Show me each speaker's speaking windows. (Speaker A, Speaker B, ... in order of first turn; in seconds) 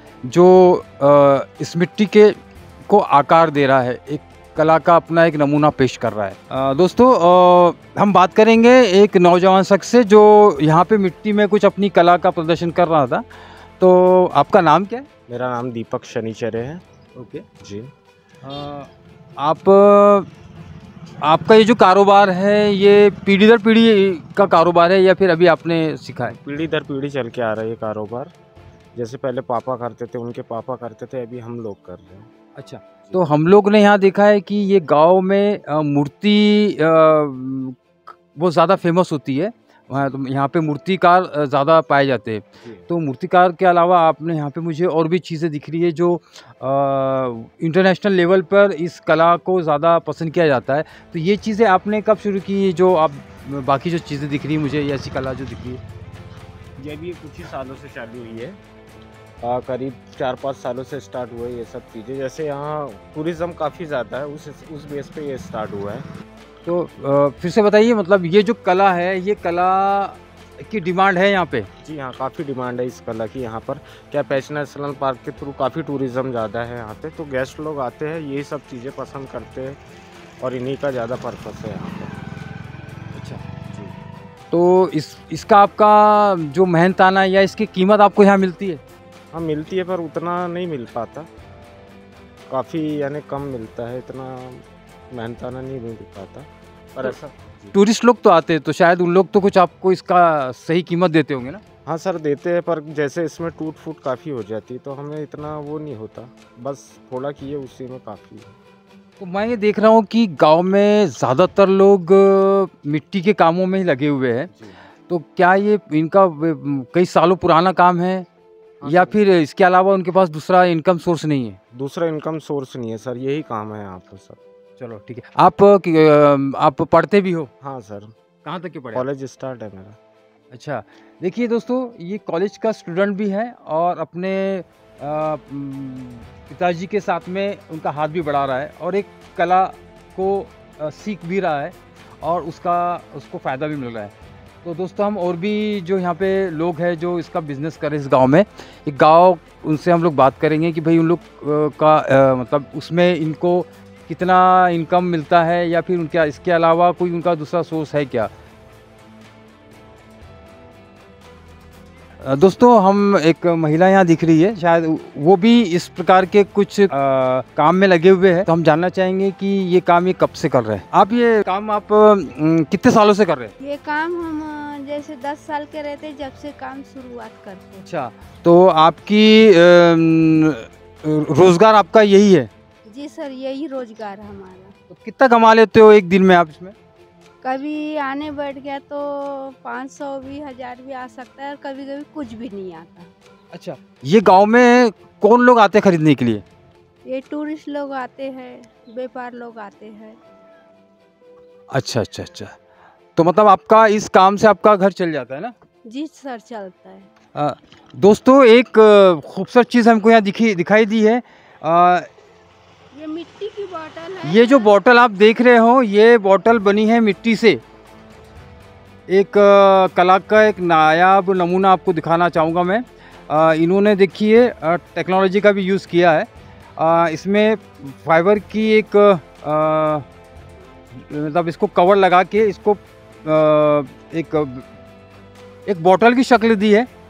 Speaker A: 0.2-13.2, 13.8-15.1, 17.1-17.4, 18.4-20.3, 21.2-26.4, 32.5-55.8, 66.6-71.7, 83.1-83.4, 84.5-88.8, 97.7-101.6, 109.2-114.5, 115.1-118.3, 118.8-121.6, 124.8-127.5, 128.4-129.0, 130.5-158.3, 162.2-173.5, 177.8-182.5, 184.9-186.7, 193.5-196.4, 201.7-202.5, 203.2-205.5, 207.3-212.1, 214.2-217.6, 219.1-230.1, 230.9-234.7, 235.7-236.9
Speaker B: 15.3-16.8, 17.6-17.9, 26.2-28.3, 28.9-32.3, 56.8-58.6, 59.4-66.0, 71.8-79.8, 80.4-82.2, 83.7-83.9, 89.3-91.3, 92.5-97.7, 101.8-108.5, 118.8-119.2, 121.7-124.4, 127.6-128.1, 128.9-130.0
Speaker C: 173.6-177.8, 182.9-184.7, 187.4-193.1, 197.1-200.2, 205.9-207.1, 212.9-214.7